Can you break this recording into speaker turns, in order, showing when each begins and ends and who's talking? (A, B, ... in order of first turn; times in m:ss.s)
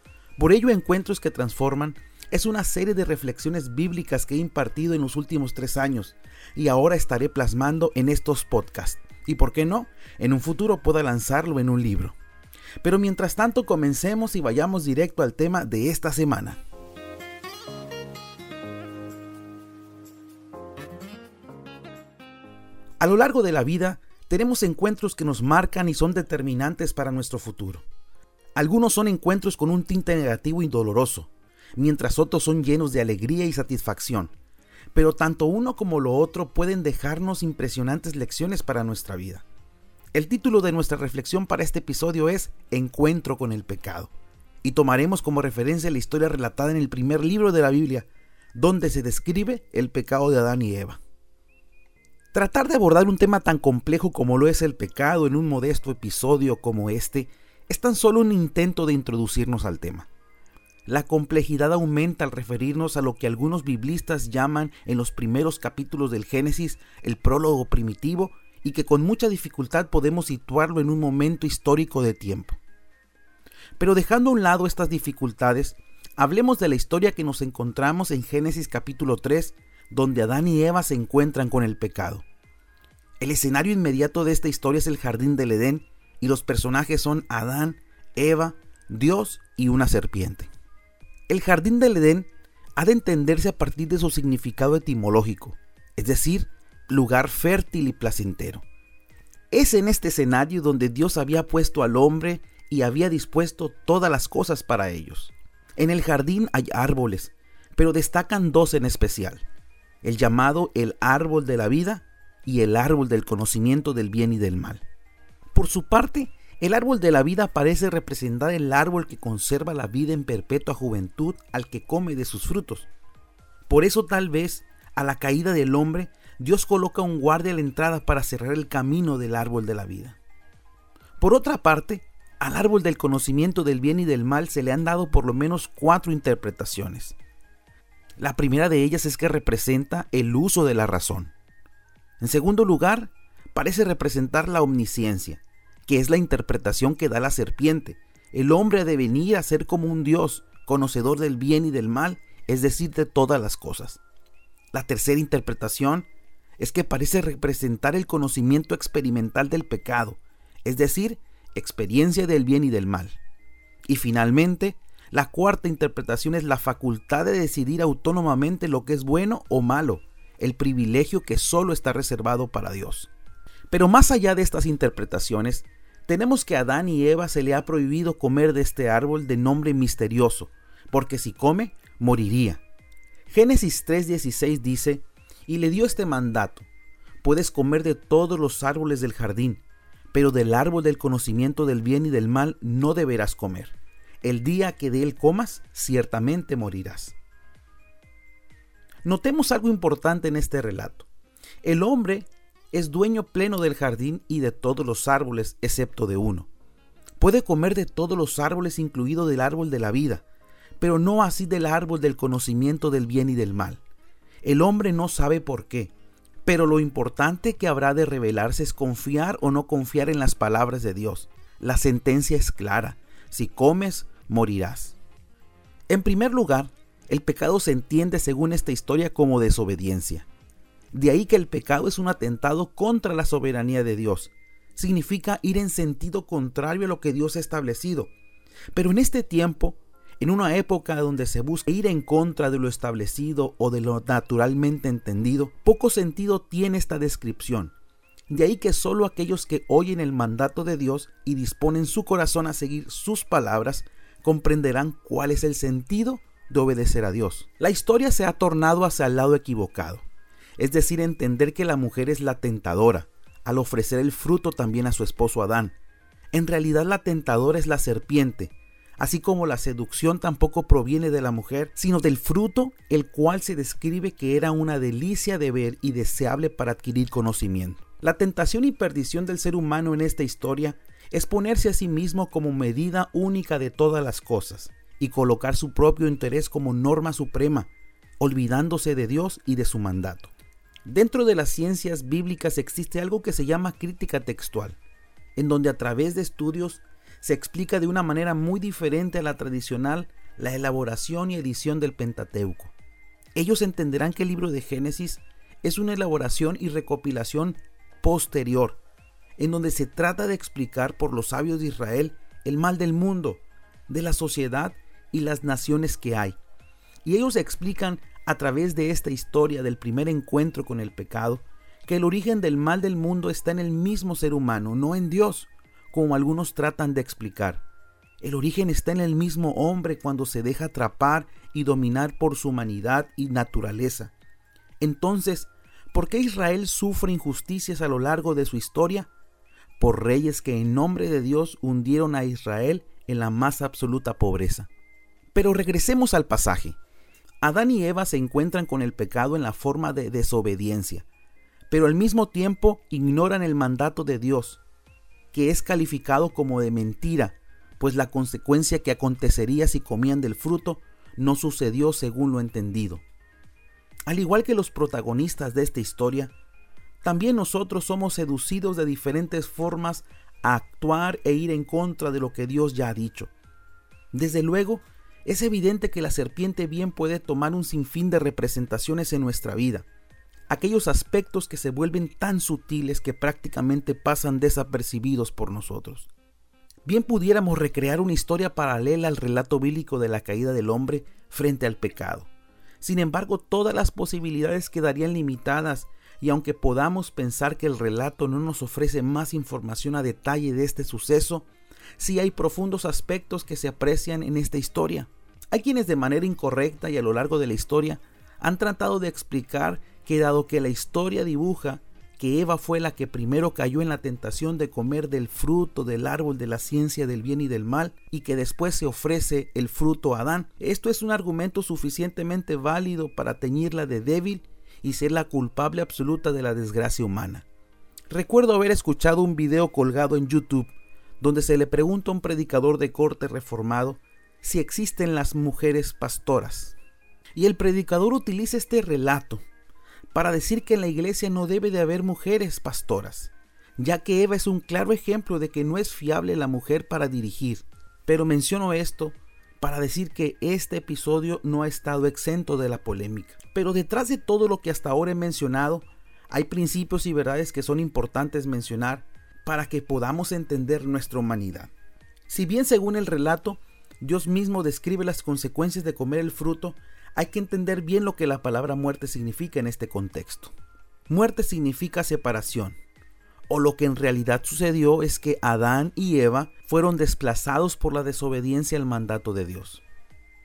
0:00.4-0:12.2 A
0:12.8-0:16.6 A
0:23.0-0:27.8 A
0:28.6-0:34.3 A
0:34.9-0:39.4 A
0:40.1-0:44.1 A
0:44.6-0:51.0 A
0:52.3-1:00.1 A
1:00.9-1:12.6 A
1:13.8-1:22.2 A
1:23.2-1:30.5 A
1:31.3-1:38.6 A
1:39.5-1:49.4 A
1:50.0-1:54.8 A
1:55.5-2:02.9 A
2:03.7-2:10.2 A
2:11.2-2:17.2 A
2:18.2-2:21.3 A
2:22.2-2:34.0 A
2:34.7-2:36.1 A
2:36.6-2:43.2 A
2:43.9-2:53.1 A
2:53.7-3:02.6 A
3:03.3-3:06.7 A
3:07.2-3:17.2 A
3:19.0-3:21.1 A
3:21.6-3:26.5 A
3:27.2-3:30.2 A
3:30.8-3:33.8 A
3:34.4-3:35.9 A
3:36.4-3:45.0 A
3:45.9-3:50.3 A
3:50.9-3:58.1 A
3:58.7-4:07.7 A
4:08.3-4:20.0 A
4:20.6-4:25.7 A
4:26.3-4:50.3 A
4:50.8-4:54.8 A
4:55.4-5:02.7 A
5:03.4-5:08.8 A
5:09.4-5:16.4 A
5:17.0-5:27.6 A
5:28.2-5:34.1 A
5:34.8-5:39.1 A
5:39.8-5:44.7 A
5:45.3-5:46.8 A
5:47.4-5:51.0 A
5:51.7-5:54.6 A
5:55.3-6:03.0 A
6:04.1-6:06.3 A
6:07.0-6:13.3 A
6:14.1-6:19.8 A
6:20.5-6:26.1 A
6:26.8-6:32.3 A
6:32.8-6:41.5 A
6:42.0-7:07.4 A
7:08.1-7:16.8 A
7:17.4-7:19.4 A
7:20.1-7:41.7 A
7:42.3-7:50.5 A
7:51.1-7:52.8 A
7:53.5-7:59.8 A